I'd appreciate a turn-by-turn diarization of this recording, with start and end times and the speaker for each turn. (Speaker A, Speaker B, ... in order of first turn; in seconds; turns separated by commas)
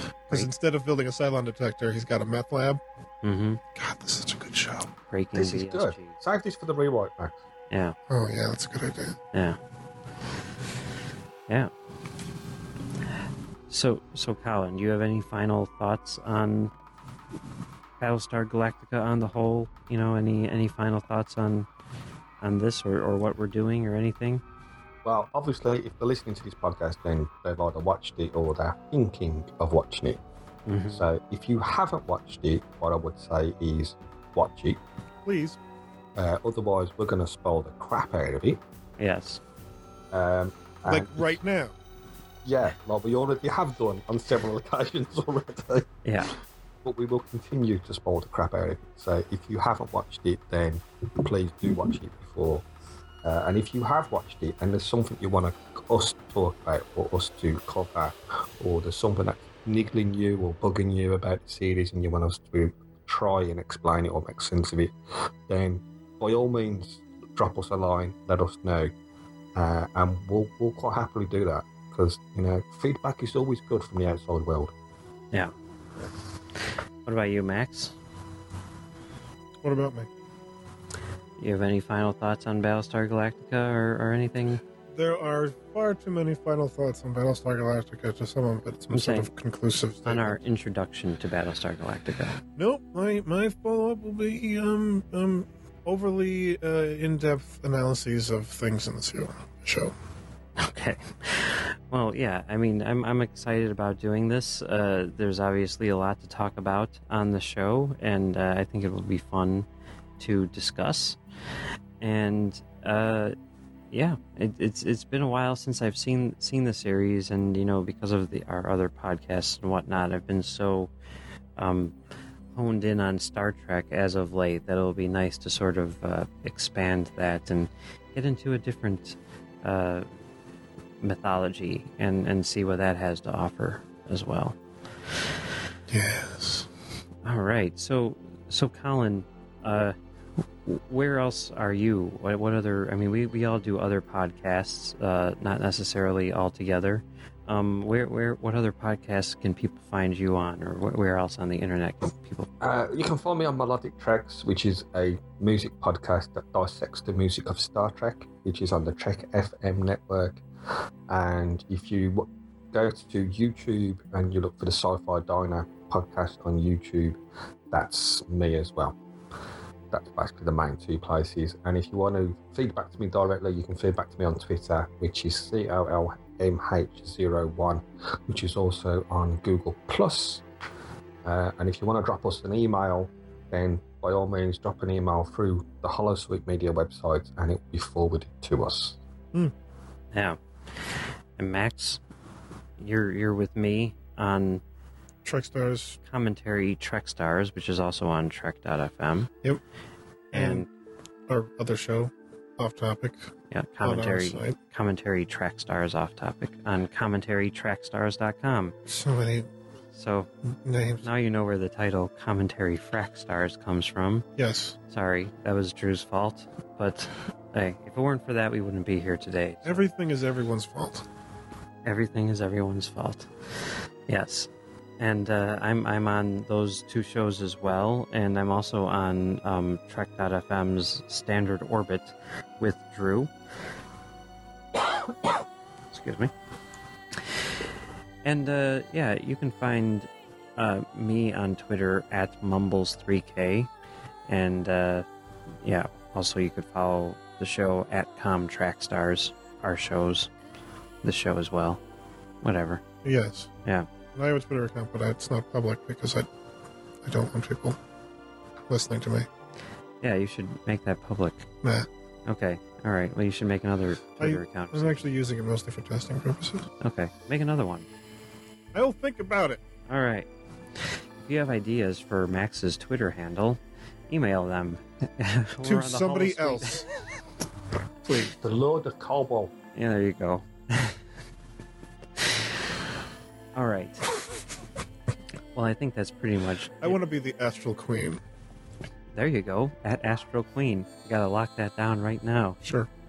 Speaker A: 0.3-2.8, Speaker B: 3.2-3.6, Speaker A: 3.8-4.9, Speaker B: 5.1-6.2, Speaker C: 5.3-7.4, Speaker B: 7.7-8.0, Speaker A: 8.1-9.2, Speaker B: 9.3-9.6, Speaker B: 13.7-16.7, Speaker B: 18.0-21.7, Speaker B: 22.4-24.4, Speaker C: 25.0-30.2, Speaker B: 30.7-31.1, Speaker C: 30.9-34.8, Speaker A: 35.3-35.6, Speaker C: 36.2-38.6, Speaker B: 39.0-39.4, Speaker C: 40.1-41.4, Speaker A: 40.9-41.8, Speaker C: 42.4-45.9, Speaker B: 46.0-46.3, Speaker C: 46.8-52.6, Speaker C: 53.2-68.9, Speaker C: 69.5-74.7, Speaker B: 77.1-78.0, Speaker A: 79.6-80.1, Speaker B: 81.4-84.6, Speaker A: 84.9-90.4, Speaker B: 88.9-89.3, Speaker B: 90.0-92.4, Speaker A: 92.6-99.9, Speaker B: 100.6-109.7, Speaker B: 110.2-111.2, Speaker B: 112.0-113.4, Speaker B: 113.9-120.9, Speaker B: 121.6-121.9, Speaker B: 122.5-130.1, Speaker B: 131.0-134.6, Speaker A: 135.9-136.7, Speaker B: 137.2-139.9, Speaker B: 140.7-152.5, Speaker C: 152.6-160.4, Speaker C: 161.1-167.2, Speaker C: 167.7-169.0, Speaker C: 169.9-180.4, Speaker C: 181.2-189.0, Speaker B: 190.1-192.0, Speaker B: 192.8-194.6, Speaker A: 195.2-196.0, Speaker B: 196.1-199.3, Speaker A: 200.3-200.7, Speaker B: 200.3-200.7, Speaker A: 201.3-203.3, Speaker B: 203.5-208.7, Speaker A: 203.8-204.6, Speaker A: 208.9-209.5, Speaker B: 209.9-210.3, Speaker A: 210.6-211.1, Speaker B: 211.0-214.3, Speaker A: 214.4-214.8, Speaker B: 214.9-219.8, Speaker A: 219.7-221.1, Speaker B: 221.8-233.3, Speaker B: 235.9-236.3, Speaker B: 238.2-243.7, Speaker B: 244.3-245.1, Speaker B: 245.6-250.3, Speaker B: 251.0-251.8, Speaker B: 252.4-252.8, Speaker A: 253.0-253.5, Speaker A: 254.2-256.3, Speaker A: 257.1-257.8, Speaker A: 258.7-259.3, Speaker B: 260.0-261.5, Speaker B: 262.3-265.1, Speaker A: 264.2-266.7, Speaker B: 266.8-267.9, Speaker A: 268.7-269.6, Speaker B: 269.9-270.3, Speaker B: 270.8-276.8, Speaker A: 275.6-276.9, Speaker A: 278.1-278.4, Speaker C: 278.4-279.5, Speaker B: 279.8-281.0, Speaker B: 283.6-284.1, Speaker B: 285.5-287.0, Speaker A: 286.8-288.2, Speaker B: 289.1-292.6, Speaker A: 292.6-292.9